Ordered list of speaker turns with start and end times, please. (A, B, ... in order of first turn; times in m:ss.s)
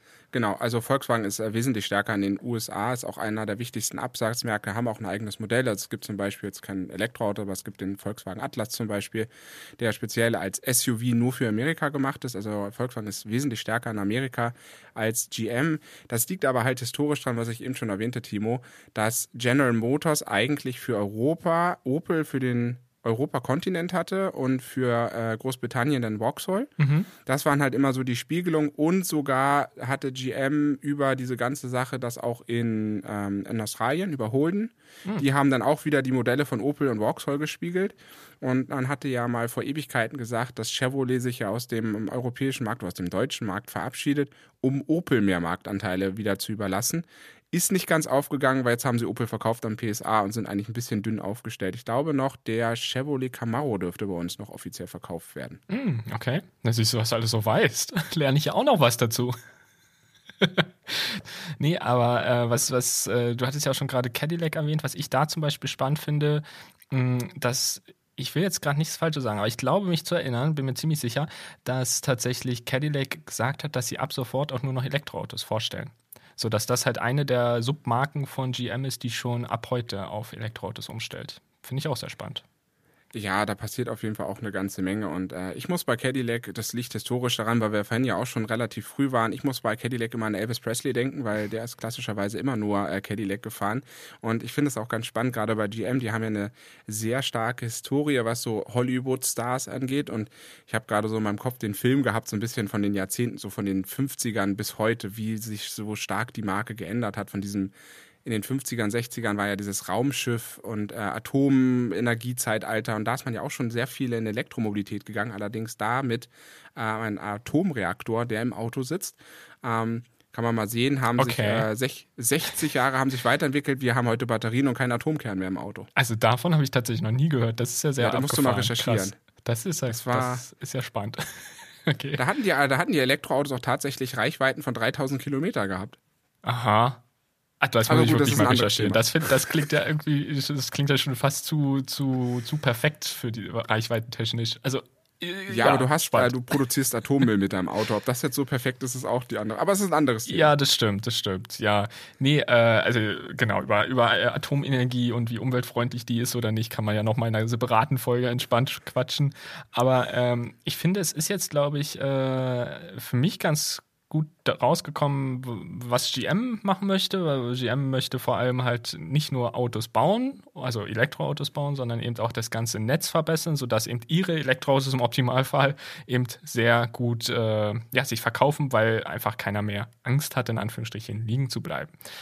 0:00.3-0:26.7 A
0:26.8-0:27.1 B
0:27.2-0:55.6 A
0:55.7-0:59.4 B
1:00.4-1:22.4 B
1:23.1-1:47.7 A
1:48.2-2:05.9 A
2:01.1-2:01.7 B
2:06.0-2:12.2 B
2:08.0-2:09.1 A
2:09.9-2:10.4 A
2:12.2-2:16.0 A
2:16.4-2:17.0 B
2:17.6-2:26.4 B
2:17.9-2:19.0 A
2:25.5-2:30.5 A
2:30.3-3:01.9 B